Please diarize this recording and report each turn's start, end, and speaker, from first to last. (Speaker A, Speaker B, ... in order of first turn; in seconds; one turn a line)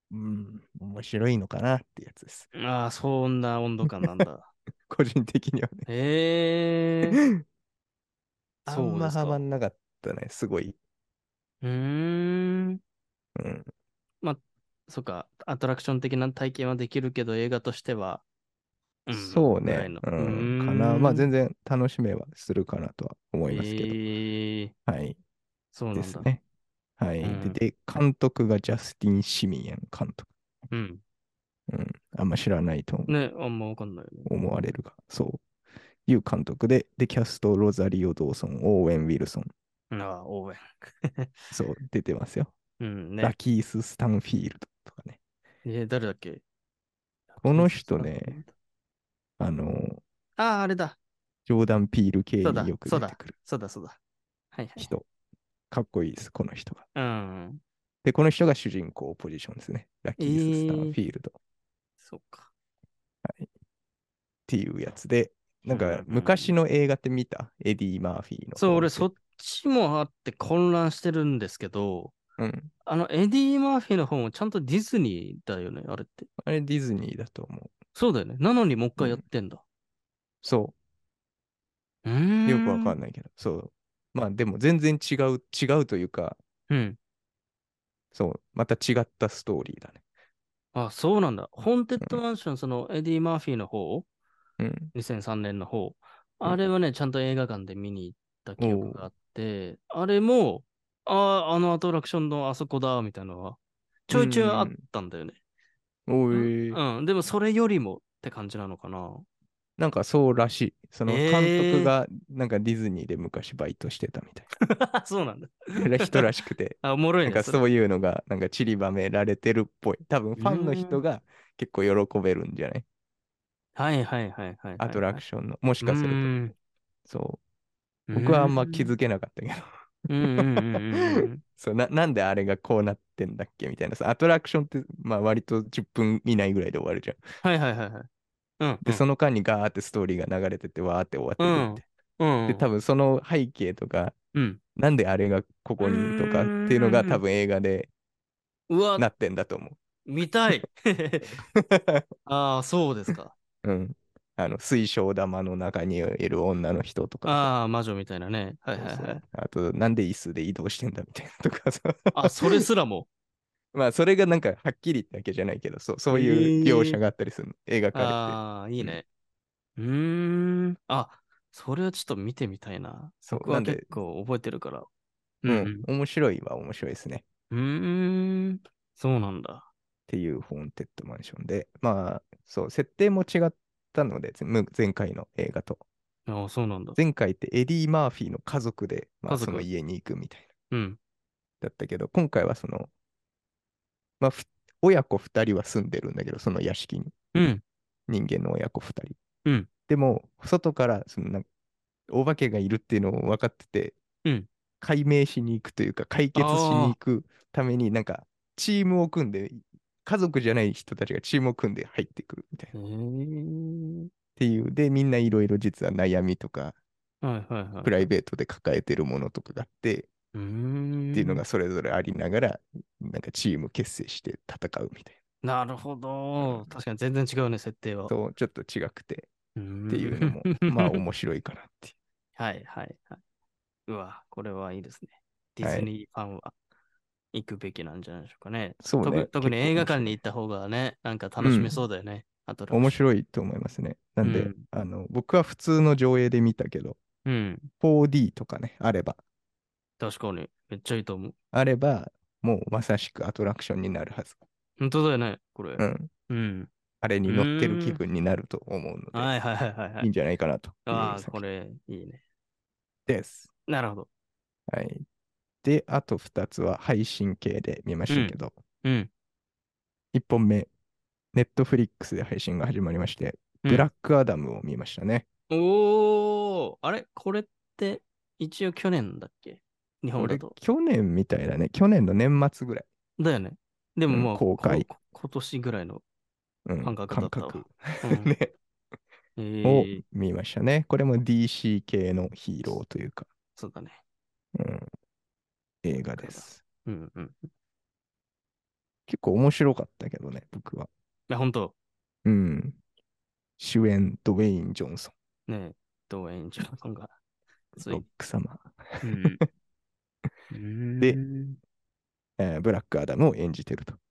Speaker A: 0.1-2.5
Speaker B: 2.5-4.5
Speaker A: 3.9-4.3
Speaker A: 4.9-5.9
Speaker B: 5.9-7.2
Speaker A: 7.1-7.4
Speaker B: 8.7-9.4
Speaker A: 8.7-10.8
Speaker B: 11.6-12.8
Speaker A: 13.4-13.7
Speaker B: 14.2-18.2
Speaker B: 19.1-21.3
Speaker A: 19.1-24.0
Speaker B: 23.5-24.7
Speaker A: 24.9-25.2
Speaker B: 25.7-26.3
Speaker A: 25.9-26.4
Speaker A: 27.0-30.3
Speaker B: 27.2-27.6
Speaker B: 30.7-31.0
Speaker A: 31.7-33.1
Speaker B: 33.1-34.3
Speaker A: 34.3-35.4
Speaker A: 36.1-39.5
Speaker B: 39.9-41.5
Speaker A: 41.5-42.5
Speaker B: 42.8-43.4
Speaker A: 43.2-45.2
Speaker B: 45.6-46.4
Speaker B: 47.3-48.5
Speaker A: 47.4-48.4
Speaker A: 49.4-50.0
Speaker B: 50.4-51.0
Speaker A: 51.5-53.4
Speaker B: 52.4-54.0
Speaker B: 54.5-54.9
Speaker A: 54.8-55.0
Speaker A: 55.7-56.9
Speaker B: 57.0-57.6
Speaker A: 58.0-61.4
Speaker B: 60.2-61.0
Speaker B: 62.0-62.5
Speaker A: 64.5-69.1
Speaker B: 65.7-66.5
Speaker B: 68.6-72.2
Speaker A: 72.4-72.7
Speaker B: 72.8-76.3
Speaker A: 76.4-77.7
Speaker B: 78.0-79.6
Speaker A: 80.4-80.8
Speaker B: 82.0-83.0
Speaker A: 82.5-86.4
Speaker B: 86.7-87.0
Speaker A: 88.1-90.0
Speaker B: 90.8-94.1
Speaker A: 94.6-94.9
Speaker B: 94.9-105.4
Speaker A: 98.6-99.0
Speaker A: 104.1-104.8
Speaker A: 106.1-106.8
Speaker B: 106.3-109.2
Speaker A: 109.8-114.5
Speaker B: 111.1-111.9
Speaker B: 114.7-116.3
Speaker A: 115.8-122.8
Speaker B: 116.8-117.7
Speaker B: 120.4-121.0
Speaker B: 123.8-125.2
Speaker A: 124.8-126.3
Speaker B: 125.8-126.5
Speaker A: 127.1-127.4
Speaker B: 128.1-128.9
Speaker A: 128.1-137.2
Speaker B: 130.1-131.4
Speaker B: 137.4-138.1
Speaker B: 138.6-139.0
Speaker A: 138.8-141.8
Speaker B: 141.4-142.7
Speaker A: 142.5-144.2
Speaker B: 144.3-144.6
Speaker A: 144.8-147.9
Speaker B: 145.8-147.2
Speaker B: 148.7-149.1
Speaker A: 149.0-149.8
Speaker B: 150.1-151.4
Speaker A: 151.4-152.1
Speaker B: 152.3-153.4
Speaker A: 153.6-157.5
Speaker B: 157.2-159.2
Speaker A: 158.8-162.6
Speaker B: 162.1-163.1
Speaker A: 163.7-169.0
Speaker B: 166.1-167.0
Speaker B: 167.9-169.1
Speaker B: 169.8-174.9
Speaker A: 173.3-174.0
Speaker B: 175.4-175.9
Speaker A: 175.5-177.2
Speaker B: 177.5-179.7
Speaker A: 180.1-185.8
Speaker B: 186.3-187.0
Speaker A: 187.0-190.5
Speaker B: 189.3-189.7
Speaker B: 190.7-191.0
Speaker A: 191.6-192.9
Speaker A: 194.2-197.2
Speaker B: 197.3-197.6
Speaker A: 198.1-199.2
Speaker A: 199.9-201.4
Speaker A: 202.1-204.0
Speaker A: 204.8-212.7
Speaker B: 206.3-207.0
Speaker B: 212.7-214.1
Speaker A: 214.4-216.8
Speaker B: 217.2-218.1
Speaker A: 217.8-220.1
Speaker B: 220.3-221.4
Speaker A: 221.1-225.2
Speaker B: 225.4-228.1
Speaker A: 226.4-226.7
Speaker A: 228.1-229.3
Speaker B: 229.6-231.0
Speaker A: 229.9-231.9
Speaker B: 232.4-233.2
Speaker B: 233.9-236.5
Speaker A: 235.6-235.9
Speaker B: 237.3-243.0
Speaker A: 238.8-240.2
Speaker A: 241.4-241.8
Speaker A: 242.7-247.0
Speaker B: 244.2-244.7
Speaker B: 247.2-247.7
Speaker A: 247.8-249.2
Speaker B: 250.0-251.3
Speaker A: 251.5-254.4
Speaker B: 254.8-256.7
Speaker A: 255.8-256.1
Speaker A: 257.0-259.3
Speaker B: 257.3-258.0
Speaker B: 259.1-260.1
Speaker A: 260.0-261.4
Speaker B: 260.9-262.2
Speaker A: 263.1-263.5
Speaker B: 263.7-264.1
Speaker A: 264.7-265.0
Speaker A: 265.6-268.6
Speaker B: 268.1-269.1
Speaker A: 270.1-270.7
Speaker A: 271.3-275.3
Speaker B: 275.5-280.5
Speaker A: 280.2-282.9
Speaker B: 283.2-286.0
Speaker A: 284.1-284.9
Speaker A: 286.7-288.5
Speaker B: 286.8-288.4
Speaker B: 289.4-290.0
Speaker A: 289.6-293.3
Speaker B: 293.6-294.0
Speaker A: 294.6-294.9
Speaker A: 295.8-296.6
Speaker B: 296.2-297.5
Speaker A: 299.1-300.9
Speaker B: 301.3-301.8
Speaker A: 302.2-302.8
Speaker A: 303.6-305.1
Speaker B: 305.5-307.1
Speaker B: 307.8-308.0
Speaker A: 307.8-309.4
Speaker B: 309.0-309.4
Speaker B: 310.5-311.6
Speaker A: 312.4-314.0